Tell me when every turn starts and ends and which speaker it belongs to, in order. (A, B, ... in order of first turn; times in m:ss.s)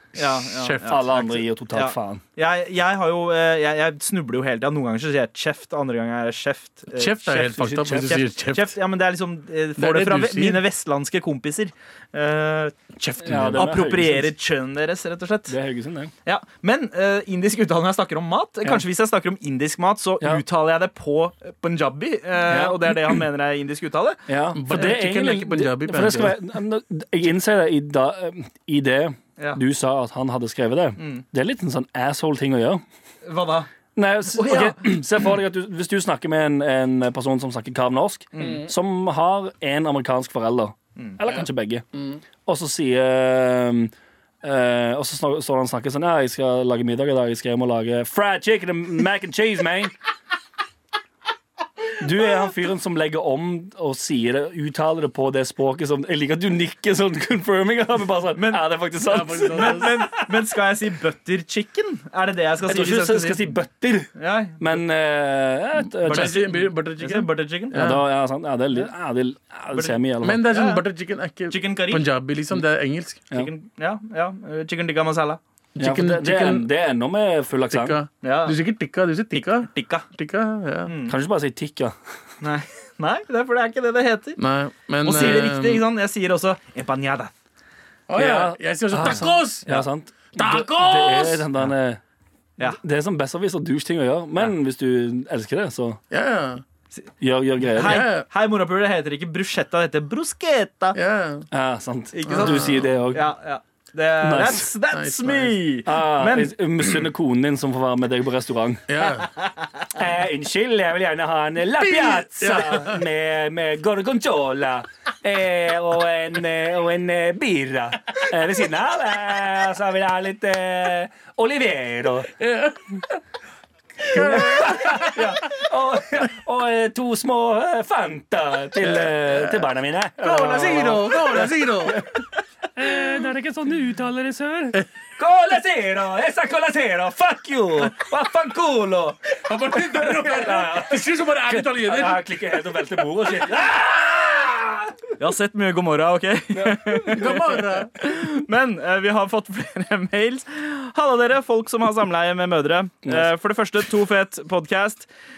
0:00.2-0:07.5 A
0:00.4-0:01.2 B
0:00.9-0:02.2 C
0:06.9-0:08.8 B
0:07.3-0:08.2 C
0:08.1-0:12.8 A
0:09.8-0:10.6 B
0:13.0-0:13.7 B
0:13.2-0:14.3 C
0:13.6-0:15.6 A
0:15.5-0:16.1 C
0:16.2-0:24.9 A
0:22.5-0:23.2 C
0:24.3-0:32.8 C
0:24.6-0:26.4 B
0:31.0-0:31.2 A
0:33.2-0:33.7 A
0:34.0-0:41.8 C
0:34.3-0:34.8 A
0:38.3-0:38.7 A
0:42.0-0:42.2 B
0:42.4-0:49.9 C
0:52.0-1:00.2 C
0:58.4-1:03.5 A
0:59.1-1:00.0 B
1:02.7-1:06.4 C
1:04.2-1:04.8 A
1:05.8-1:08.0 B
1:06.1-1:07.8 A
1:07.7-1:10.4 C
1:09.7-1:10.0 A
1:10.2-1:13.2 B
1:10.5-1:10.8 A
1:11.5-1:12.1 A
1:13.3-1:15.4 A
1:15.8-1:16.7 B
1:15.8-1:18.0 C
1:17.7-1:20.9 B
1:18.2-1:18.6 A
1:19.3-1:20.1 A
1:20.8-1:21.2 A
1:21.1-1:22.0 C
1:22.4-1:24.4 A
1:24.4-1:25.8 B
1:25.0-1:27.3 A
1:28.1-1:29.7 B
1:28.2-1:32.0 C
1:29.1-1:31.4 A
1:32.6-1:36.0 C
1:36.1-1:36.6 B
1:37.2-1:38.0 C
1:37.7-1:41.0 A
1:37.8-1:38.3 B
1:41.0-1:41.5 B
1:41.5-1:43.2 C
1:42.1-1:46.5 A
1:42.3-1:42.9 B
1:44.2-1:44.7 C
1:44.9-1:45.6 B
1:45.9-1:48.9 C
1:48.9-1:49.4 B
1:49.9-2:02.4 C
1:51.8-1:53.0 B
2:02.4-2:02.8 B
2:04.1-2:12.2 C
2:04.1-2:05.3 B
2:09.1-2:09.6 B
2:10.2-2:12.0 B
2:12.8-2:25.0 C
2:19.4-2:22.3 B
2:25.2-2:35.1 A
2:26.5-2:27.4 C
2:27.0-2:27.9 B
2:33.0-2:33.3 C